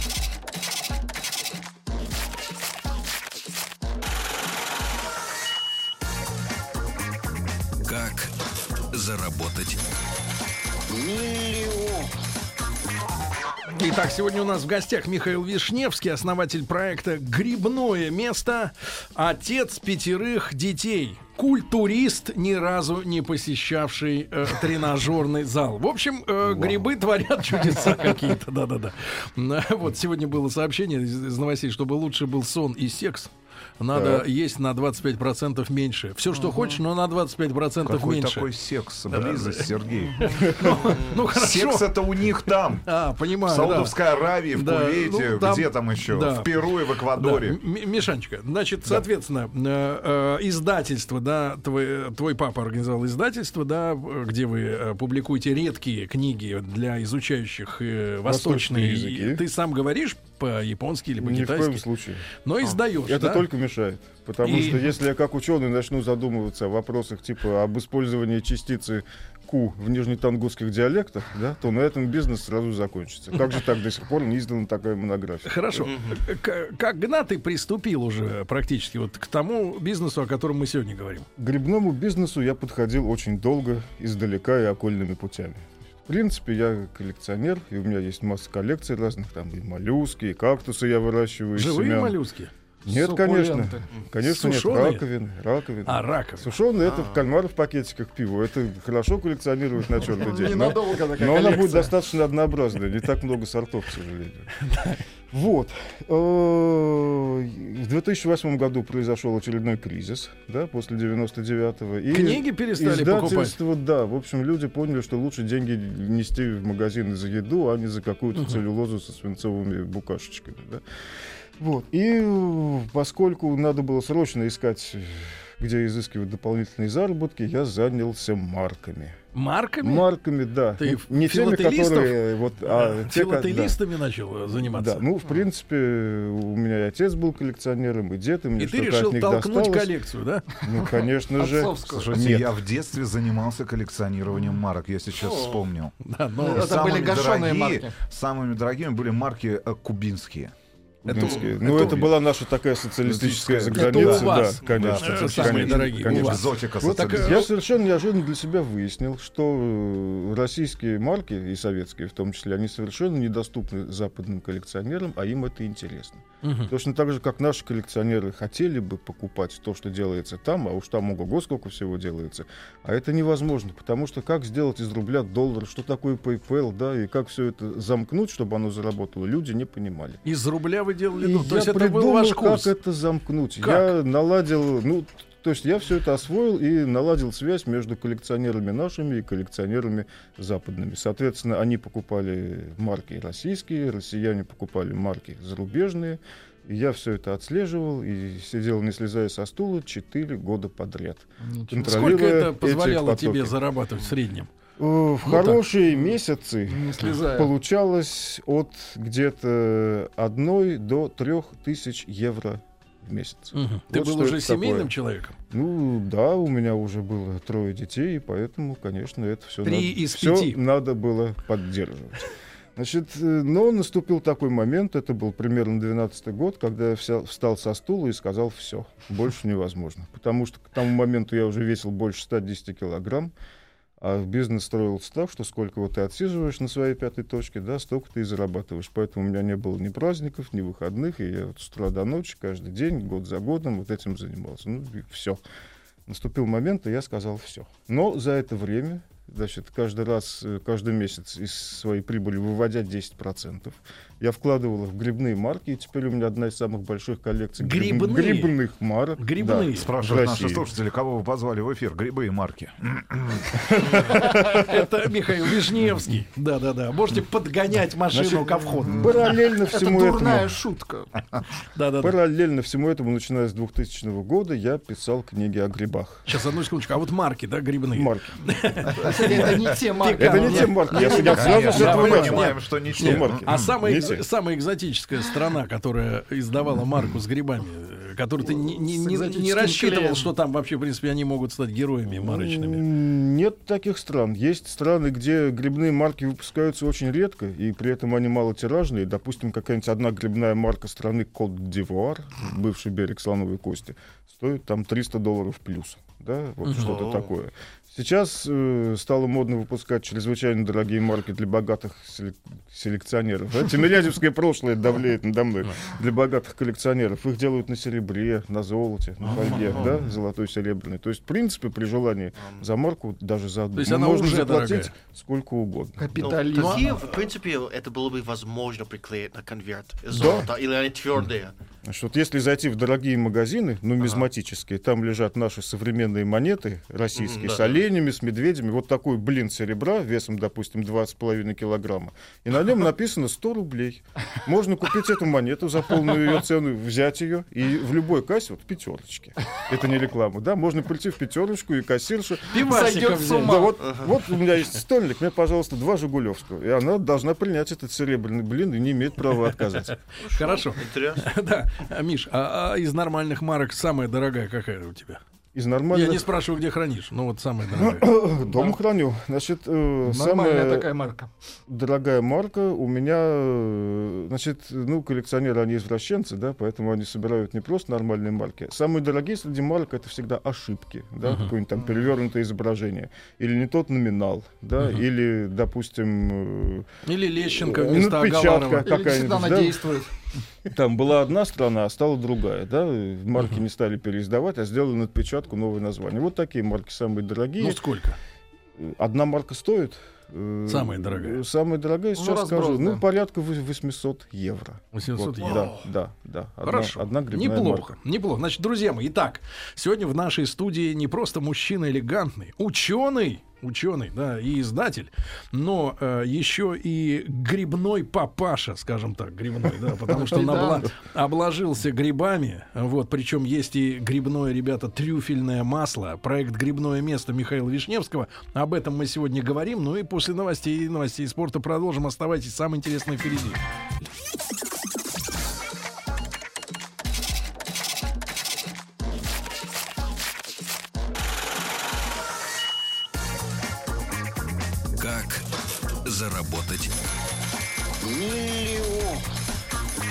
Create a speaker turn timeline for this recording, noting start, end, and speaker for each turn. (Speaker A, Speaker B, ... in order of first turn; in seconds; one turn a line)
Speaker A: 7.8-8.3
Speaker A: 8.9-9.8
Speaker B: 13.7-38.5
Speaker C: 26.4-26.8
Speaker C: 33.9-34.2
Speaker D: 36.3-36.8
Speaker E: 37.8-42.9
Speaker B: 39.1-42.0
Speaker C: 40.5-40.8
Speaker B: 42.8-44.0
Speaker E: 43.5-47.6
Speaker B: 44.5-46.5
Speaker B: 47.1-61.8
Speaker C: 58.3-59.4
Speaker C: 61.2-62.3
Speaker B: 62.4-63.5
Speaker C: 63.0-75.9
Speaker B: 64.4-64.8
Speaker B: 75.5-81.3
Speaker F: 75.8-76.2
Speaker C: 81.4-92.2
Speaker B: 91.5-92.5
Speaker C: 92.8-104.5
Speaker D: 92.9-93.9
Speaker B: 94.2-95.0
Speaker B: 95.9-96.5
Speaker F: 96.8-97.2
Speaker D: 100.1-101.9
Speaker B: 104.6-105.0
Speaker C: 105.3-120.8
Speaker B: 112.1-113.6
Speaker C: 121.6-129.2
Speaker B: 129.3-130.1
Speaker C: 129.8-133.8
Speaker B: 130.8-135.0
Speaker C: 134.5-139.9
Speaker B: 138.6-140.5
Speaker C: 140.6-142.6
Speaker D: 140.8-142.2
Speaker E: 141.9-145.9
Speaker F: 145.2-145.6
Speaker B: 146.0-146.9
Speaker D: 146.4-148.0
Speaker E: 146.5-150.5
Speaker E: 151.1-152.2
Speaker C: 151.1-180.2
Speaker F: 151.2-151.4
Speaker E: 153.0-157.4
Speaker B: 153.8-157.5
Speaker B: 166.4-166.7
Speaker B: 180.2-182.7
Speaker C: 181.2-203.6
Speaker B: 183.6-183.9
Speaker D: 201.4-202.0
Speaker B: 201.8-204.5
Speaker C: 204.8-214.9
Speaker B: 205.2-205.6
Speaker D: 206.7-207.5
Speaker B: 213.5-215.3
Speaker C: 215.5-233.3
Speaker B: 219.6-220.6
Speaker C: 234.0-245.4
Speaker C: 246.1-260.7
Speaker B: 257.6-258.6
Speaker B: 259.2-259.9
Speaker E: 259.7-264.0
Speaker C: 263.7-264.9
Speaker B: 263.8-269.3
Speaker D: 268.1-271.2
Speaker C: 269.0-270.6
Speaker B: 271.8-272.1
Speaker C: 272.0-276.4
Speaker B: 276.3-292.9
Speaker C: 277.9-278.5
Speaker D: 278.9-282.5
Speaker E: 278.9-279.8
Speaker C: 280.2-284.2
Speaker E: 281.2-283.8
Speaker D: 288.4-290.3
Speaker C: 292.1-326.6
Speaker B: 306.6-306.9
Speaker F: 306.7-307.3
Speaker D: 319.4-319.9
Speaker B: 323.8-324.9
Speaker D: 326.0-327.1
Speaker F: 326.2-331.6
Speaker B: 326.5-327.0
Speaker C: 330.1-330.5
Speaker C: 331.9-360.0
Speaker F: 337.1-337.8
Speaker B: 352.5-353.7
Speaker D: 352.6-353.8
Speaker B: 360.1-365.2
Speaker F: 360.2-361.2
Speaker C: 365.5-366.3
Speaker B: 365.9-368.1
Speaker C: 367.7-370.9
Speaker D: 370.1-371.3
Speaker C: 371.7-386.9
Speaker B: 381.2-381.5
Speaker B: 387.1-388.9
Speaker C: 387.4-389.9
Speaker D: 388.8-390.1
Speaker C: 390.7-397.8
Speaker B: 397.6-398.2
Speaker C: 398.8-407.9
Speaker B: 400.7-401.4
Speaker D: 402.1-403.0
Speaker B: 404.9-405.7
Speaker B: 406.6-433.6
Speaker D: 420.1-420.9
Speaker A: 445.0-445.5
Speaker A: 446.0-447.0
Speaker A: 448.0-449.2